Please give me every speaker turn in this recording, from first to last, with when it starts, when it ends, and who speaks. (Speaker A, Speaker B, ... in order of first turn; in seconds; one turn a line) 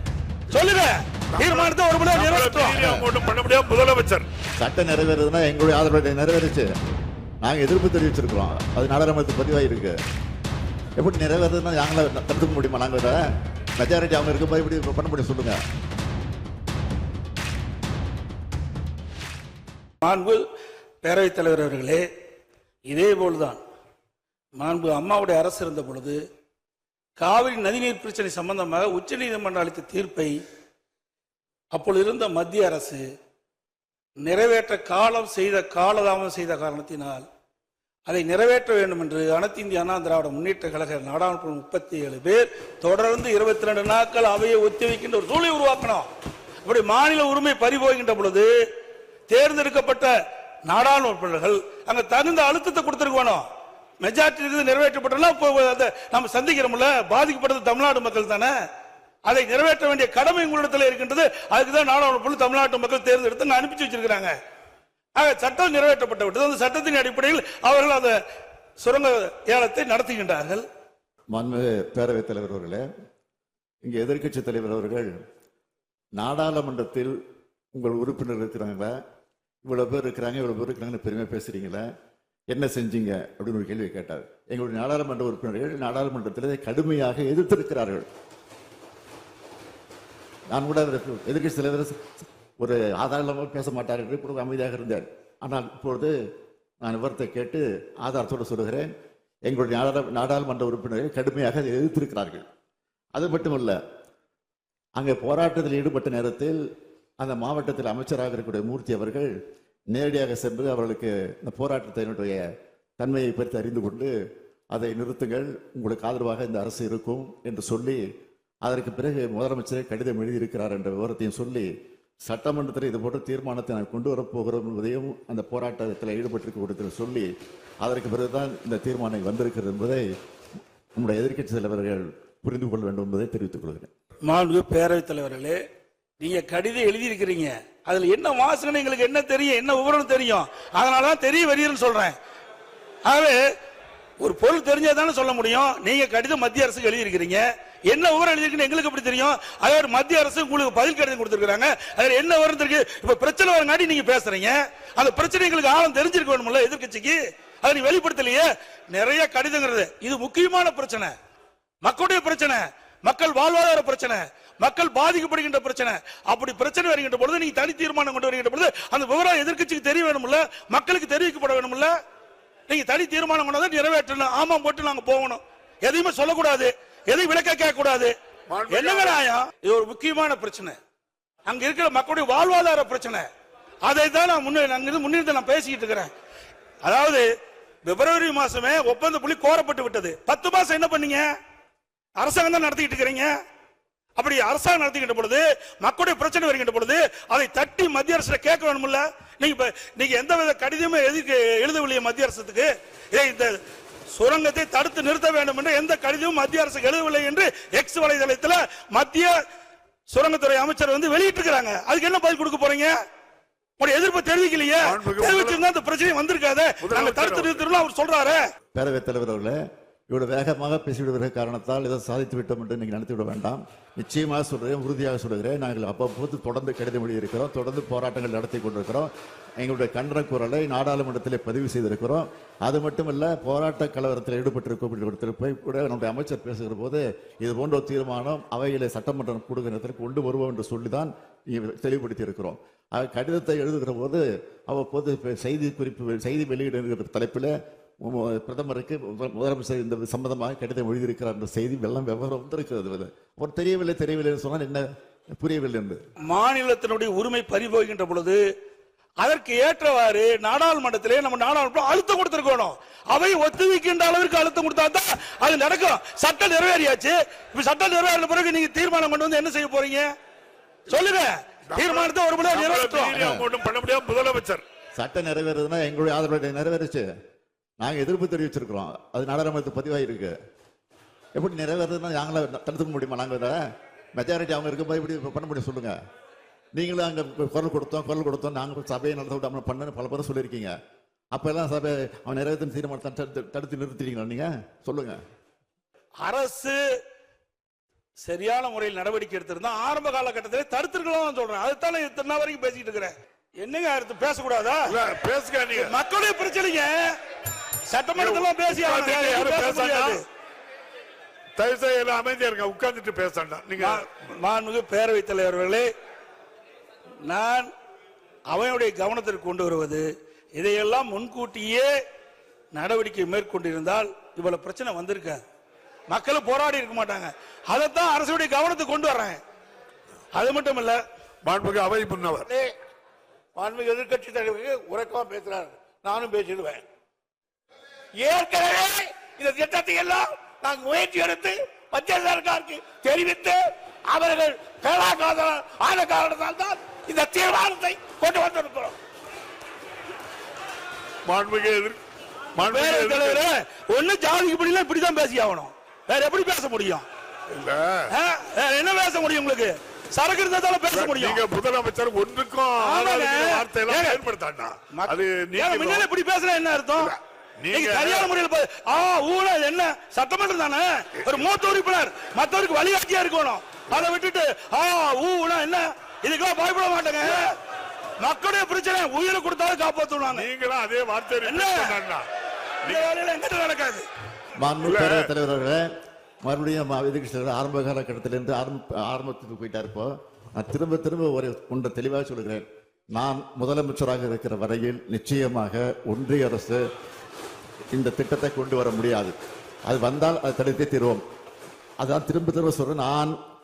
Speaker A: 0.5-2.8
Speaker B: 1.3-4.3
Speaker C: 2.8-3.1
Speaker C: 4.6-6.7
Speaker C: 7.4-9.9
Speaker C: 11.0-13.2
Speaker C: 13.8-15.6
Speaker A: 20.0-20.4
Speaker A: 21.0-22.0
Speaker A: 22.9-23.6
Speaker A: 24.6-26.2
Speaker A: 27.2-30.4
Speaker A: 31.7-33.0
Speaker A: 34.2-37.2
Speaker A: 38.1-46.1
Speaker A: 46.6-48.5
Speaker A: 49.3-50.1
Speaker A: 50.7-53.4
Speaker A: 54.0-58.5
Speaker A: 59.3-64.3
Speaker A: 65.2-68.1
Speaker A: 68.8-70.6
Speaker C: 71.3-72.8
Speaker C: 73.8-75.1
Speaker C: 76.2-77.1
Speaker C: 77.7-78.9
Speaker C: 79.6-81.8
Speaker C: 82.5-88.0
Speaker C: 90.5-96.1
Speaker C: 96.8-98.9
Speaker C: 99.5-102.4
Speaker C: 103.1-103.8
Speaker C: 105.0-106.6
Speaker C: 107.2-109.3
Speaker C: 109.9-112.5
Speaker C: 113.0-114.1
Speaker C: 114.7-118.0
Speaker C: 118.6-121.7
Speaker C: 122.2-127.3
Speaker C: 127.8-130.0
Speaker C: 130.9-133.9
Speaker A: 134.3-135.6
Speaker A: 136.2-142.1
Speaker A: 143.0-143.4
Speaker A: 144.2-161.1
Speaker A: 161.8-171.9
Speaker A: 172.7-178.1
Speaker B: 178.5-179.2
Speaker A: 178.7-180.8
Speaker A: 181.4-183.2
Speaker A: 183.8-186.1
Speaker A: 186.8-187.2
Speaker A: 187.8-191.2
Speaker A: 192.2-193.3
Speaker A: 194.2-203.6
Speaker A: 204.1-209.3
Speaker A: 210.1-212.9
Speaker A: 213.8-218.4
Speaker B: 214.8-215.6
Speaker B: 216.8-217.6
Speaker C: 218.7-219.6
Speaker C: 220.1-254.8
Speaker C: 255.4-256.0
Speaker A: 256.3-258.4
Speaker A: 259.2-270.1
Speaker A: 270.9-273.2
Speaker B: 271.7-274.6
Speaker C: 273.1-273.5
Speaker C: 275.0-277.0
Speaker C: 277.8-280.3
Speaker C: 281.4-283.6
Speaker C: 284.1-285.9
Speaker C: 286.7-290.7
Speaker C: 291.3-295.2
Speaker A: 296.2-296.8
Speaker A: 298.2-304.9
Speaker B: 304.9-305.9
Speaker A: 305.7-307.1
Speaker A: 307.9-310.2
Speaker B: 308.2-310.2
Speaker B: 311.6-314.1
Speaker A: 313.8-315.9
Speaker A: 317.2-317.7
Speaker A: 318.5-321.9
Speaker A: 322.7-325.4
Speaker A: 326.1-329.4
Speaker A: 330.3-331.0
Speaker B: 331.4-332.5
Speaker D: 333.6-336.8
Speaker D: 338.2-348.9
Speaker B: 351.2-352.0
Speaker B: 352.6-353.4
Speaker A: 352.6-357.0
Speaker B: 357.5-358.1
Speaker A: 358.1-361.4
Speaker B: 360.9-366.1
Speaker A: 362.8-364.2
Speaker A: 364.9-367.1
Speaker B: 367.0-368.3
Speaker A: 367.7-377.5
Speaker A: 378.2-380.5
Speaker B: 380.3-382.2
Speaker A: 381.4-381.9
Speaker A: 382.8-384.0
Speaker C: 384.6-385.9
Speaker B: 384.8-385.3
Speaker C: 386.4-396.8
Speaker C: 397.9-399.3
Speaker C: 399.9-401.2
Speaker C: 402.0-403.3